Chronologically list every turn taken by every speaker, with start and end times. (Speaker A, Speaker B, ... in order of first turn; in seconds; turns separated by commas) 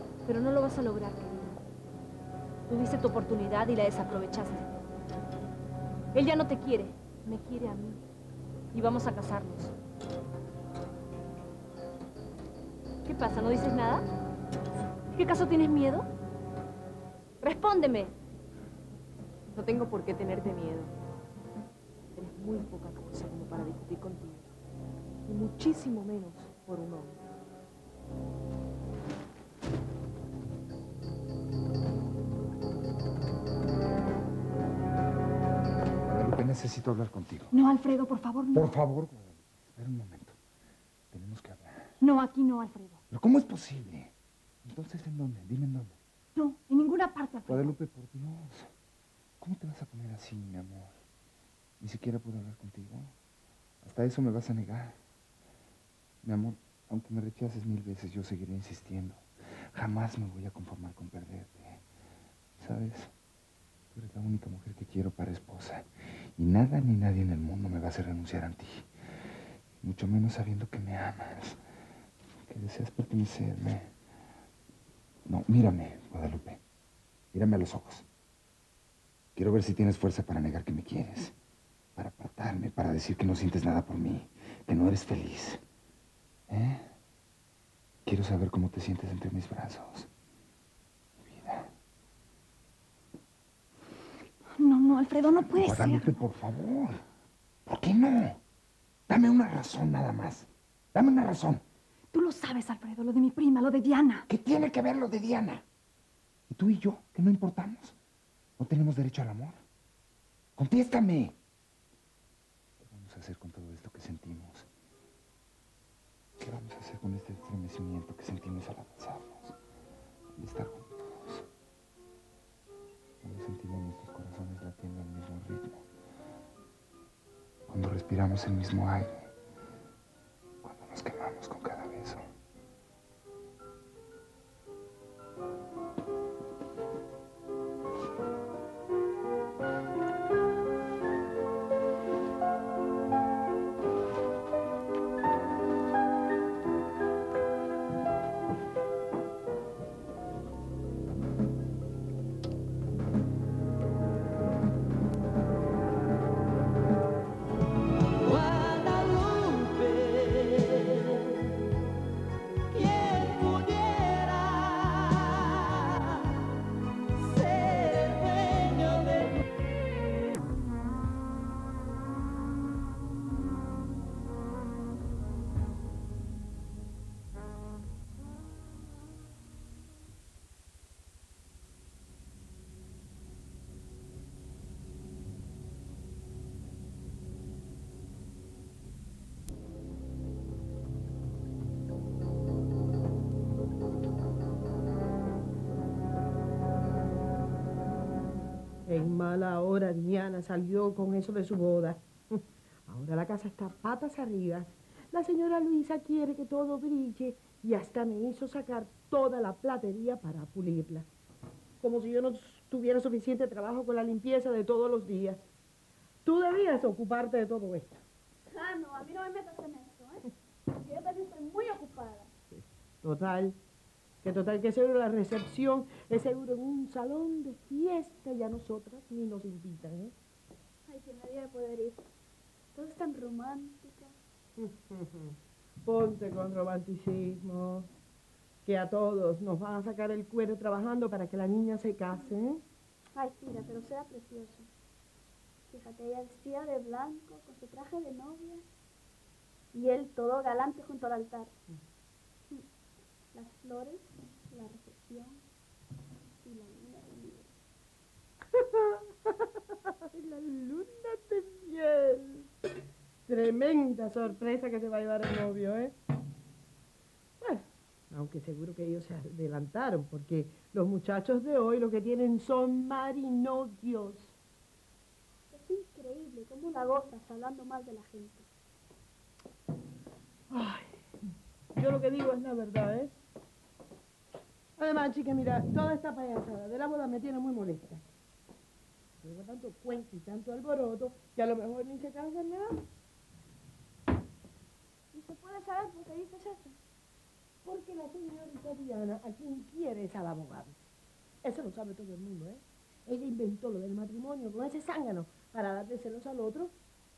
Speaker A: 0.2-1.6, Speaker A: 2.7-4.7, Speaker A: 6.1-8.0, Speaker A: 8.7-9.7, Speaker A: 13.1-14.1, Speaker A: 15.1-16.1, Speaker A: 17.4-18.1, Speaker B: 19.5-20.9, Speaker B: 22.1-24.5, Speaker B: 25.3-27.2, Speaker C: 36.1-37.5, Speaker D: 37.5-38.8, Speaker C: 38.5-40.4, Speaker C: 41.1-41.9, Speaker D: 42.0-43.0, Speaker C: 43.1-44.1, Speaker C: 44.6-46.0, Speaker D: 46.4-47.7, Speaker C: 47.5-48.7, Speaker C: 49.4-50.9, Speaker C: 51.8-53.1, Speaker C: 53.8-55.0, Speaker C: 56.2-61.8, Speaker C: 62.6-63.1, Speaker C: 63.9-68.9, Speaker C: 69.8-71.6, Speaker C: 72.5-73.9, Speaker C: 75.3-76.6, Speaker C: 77.3-78.0, Speaker C: 79.4-81.3, Speaker C: 82.0-85.6, Speaker C: 86.5-86.9, Speaker C: 88.0-90.1, Speaker C: 91.2-91.7, Speaker D: 94.6-96.2, Speaker C: 95.6-97.0, Speaker C: 97.7-98.4, Speaker C: 99.1-101.6, Speaker D: 102.1-104.3, Speaker C: 104.3-105.6, Speaker C: 106.5-108.0, Speaker C: 108.6-109.6, Speaker C: 110.6-111.3, Speaker C: 112.8-114.7, Speaker C: 116.4-119.5, Speaker C: 120.4-121.4, Speaker C: 123.2-125.8, Speaker C: 127.7-129.3, Speaker C: 130.6-132.2, Speaker E: 198.9-211.1, Speaker E: 211.8-215.4, Speaker E: 216.2-218.0, Speaker F: 218.5-222.3, Speaker E: 222.5-223.6, Speaker E: 224.2-230.2, Speaker F: 230.9-232.0, Speaker F: 232.7-234.1, Speaker E: 234.6-237.9, Speaker E: 238.7-242.6, Speaker F: 243.1-244.7, Speaker F: 245.7-248.6, Speaker F: 249.7-251.5, Speaker F: 253.3-255.4, Speaker F: 256.4-257.5, Speaker E: 258.6-259.0, Speaker E: 260.1-262.5, Speaker E: 263.3-265.9, Speaker E: 267.4-274.3, Speaker F: 275.5-278.5, Speaker E: 280.5-280.9, Speaker E: 281.8-283.1, Speaker E: 284.8-288.0, Speaker E: 289.2-292.8, Speaker F: 295.1-296.8, Speaker E: 297.6-300.8, Speaker E: 301.4-306.7